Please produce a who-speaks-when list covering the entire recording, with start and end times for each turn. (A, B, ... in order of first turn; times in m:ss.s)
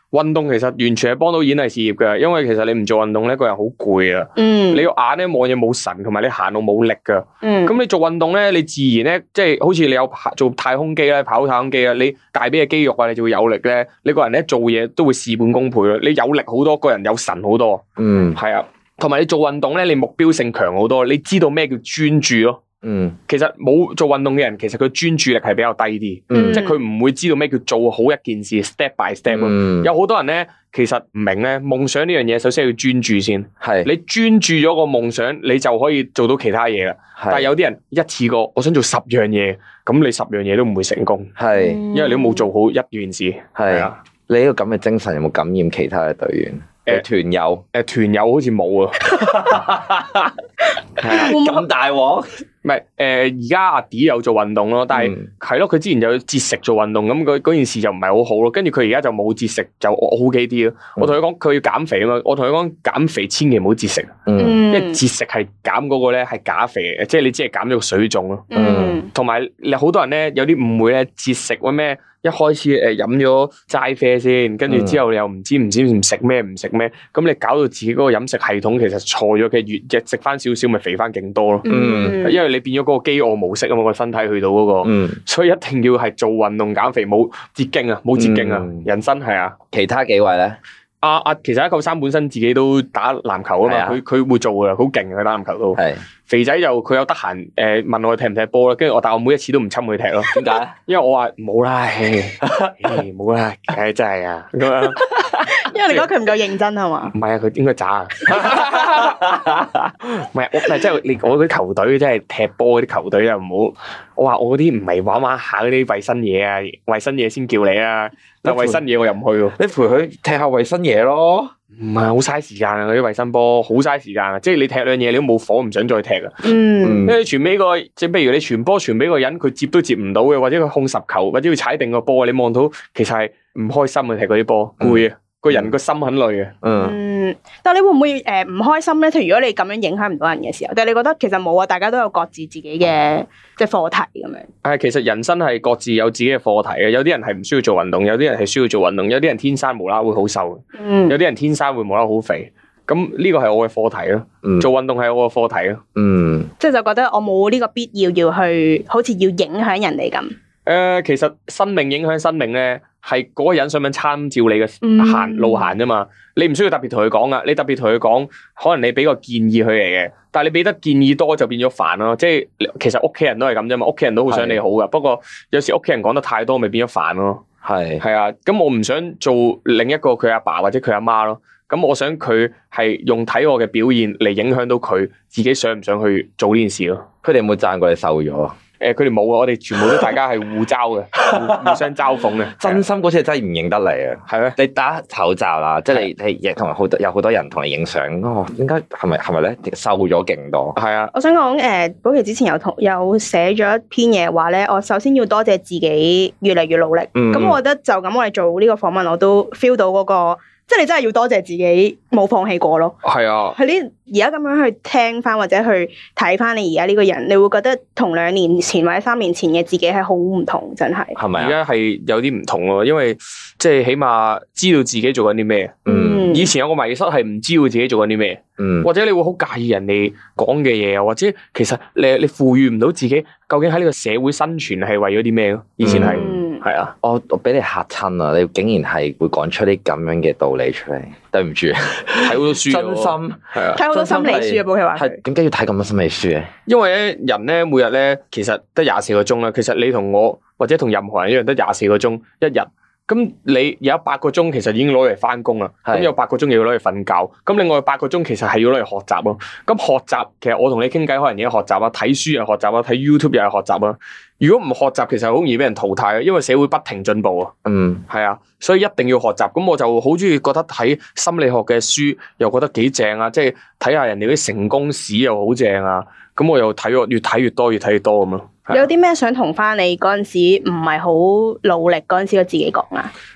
0:00.1-0:17.8 A
0:04.4-0:04.8 B
0:07.4-0:07.7 B
0:18.0-0:18.4 C
0:18.3-0:22.6 A
0:22.8-0:23.2 C
0:23.3-0:41.3 A
0:26.3-0:26.6 C
0:26.3-0:26.8 B
0:29.3-0:29.9 C
0:33.6-0:33.9 C
0:37.2-0:37.5 C
0:41.4-0:41.8 C
0:41.6-0:42.5 B
0:41.9-0:44.0 A
0:43.6-0:47.6 C
0:47.7-0:49.6 A
0:49.0-0:50.3 C
0:51.0-0:52.3 C
0:51.0-0:51.3 A
0:51.1-0:51.6 B
0:52.6-1:08.5 A
0:54.9-0:55.3 C
1:04.3-1:04.6 C
1:04.4-1:05.0 B
1:08.5-1:09.1 B
1:08.5-1:09.0 C
1:09.1-1:21.6 A
1:14.7-1:15.0 C
1:21.6-1:22.4 B
1:21.6-1:22.2 C
1:22.2-1:29.6 A
1:24.8-1:25.2 C
1:28.2-1:28.9 C
1:29.7-1:30.6 C
1:31.0-1:46.0 A
1:33.6-1:34.0 C
1:35.7-1:36.0 C
1:40.3-1:40.7 C
1:42.4-1:42.7 C
1:45.4-1:47.1 B
1:47.1-1:49.5 A
1:50.0-1:59.5 A
1:58.4-1:58.8 C
1:59.6-2:01.5 C
2:01.8-2:06.5 A
2:06.4-2:07.1 B
2:06.8-2:07.2 C
2:07.0-2:16.5 A
2:14.8-2:15.7 C
2:16.6-2:17.0 C
2:16.7-2:24.5 B
2:24.6-2:35.8 A
2:30.8-2:31.2 B
2:35.9-2:36.5 C
2:36.6-2:40.3 B
2:40.6-2:57.4 A
2:44.8-2:45.7 B
2:54.3-2:54.6 C
2:57.6-2:58.0 C
2:58.0-3:07.0 A
3:07.2-3:08.5 C
3:08.8-3:12.8 A
3:09.8-3:10.1 C
3:11.2-3:11.8 C
3:12.6-3:20.8 C
3:14.3-3:14.6 A
3:20.7-3:21.1 A
3:21.1-3:33.0 B
3:27.1-3:27.6 C
3:33.0-3:33.6 A
3:33.5-3:41.2 B
3:41.2-3:41.6 C
3:41.4-3:45.8 A
3:45.8-3:46.3 C
3:45.9-3:46.5 B
3:46.3-3:56.9 A
3:48.6-3:48.9 C
3:55.8-3:56.4 C
3:55.9-3:56.6 B
3:57.0-4:06.5 C
4:02.2-4:04.3 A
4:03.7-4:05.2 B
4:06.7-4:27.5 A
4:15.8-4:16.1 C
4:27.6-4:28.0 C
4:28.1-4:38.8 A
4:38.7-4:43.1 B